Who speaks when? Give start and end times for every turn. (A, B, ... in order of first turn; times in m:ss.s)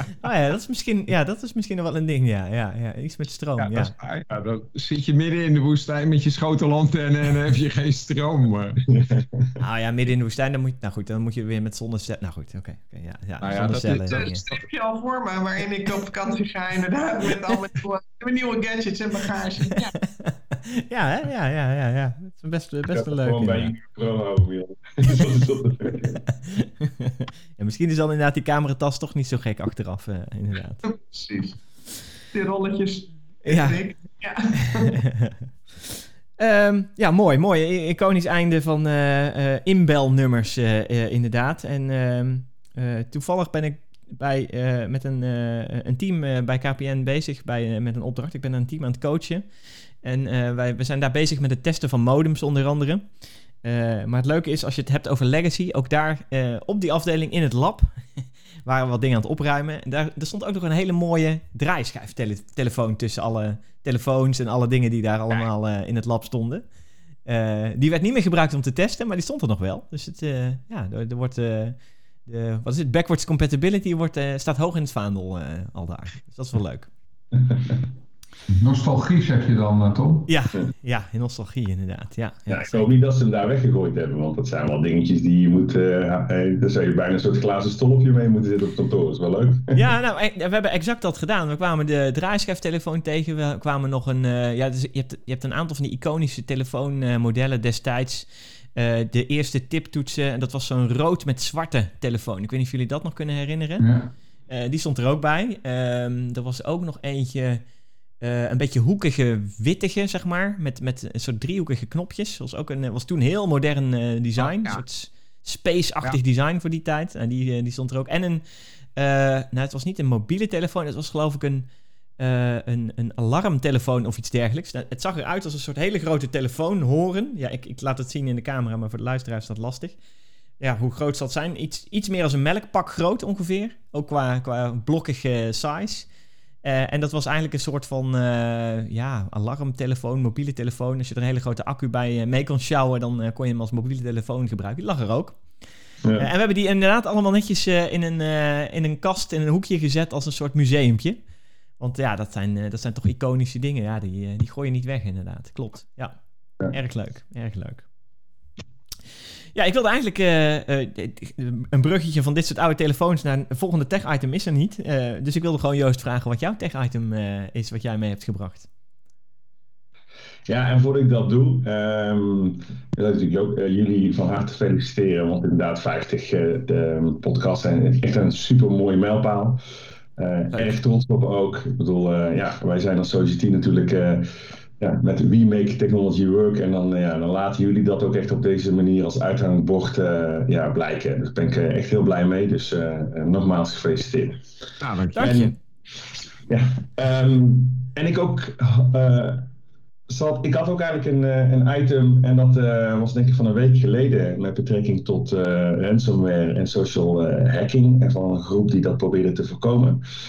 0:00.2-0:03.9 A
0:03.6-0:08.8 B
0:08.9-0:09.4 C
0:09.6-0:14.4 A
0:13.4-0:14.6 B
0:14.1-0:19.9 D
0:20.2-0:23.7 A
0:22.9-0:26.2 C
0:26.4-0:30.8 A
0:30.8-0:31.5 D
0:32.3-0:35.0 D
0:33.4-0:33.8 A
0:34.7-0:35.4 A
0:36.4-0:49.5 A
0:50.0-0:53.1 A
0:53.6-1:06.6 A
1:07.2-1:16.9 A
1:17.5-1:17.8 C
1:18.5-1:20.3 E
1:20.3-1:22.9 A
1:22.5-1:29.8 C
1:29.7-1:43.9 A
1:43.8-1:44.1 E
1:44.5-1:47.6 A
1:48.2-1:58.4 A
1:54.4-1:54.8 B
1:59.0-2:01.7 A
2:02.2-2:10.0 A
2:10.6-2:16.1 A
2:16.6-2:25.4 A
2:26.2-2:31.2 A
2:31.8-2:36.2 A
2:36.7-2:37.8 A
2:39.5-2:48.7 A
2:50.5-2:59.6 C
3:00.2-3:04.3 C
3:04.8-3:14.4 C
3:14.8-3:15.5 B
3:15.2-3:15.5 C
3:16.5-3:19.5 C
3:20.1-3:30.0 C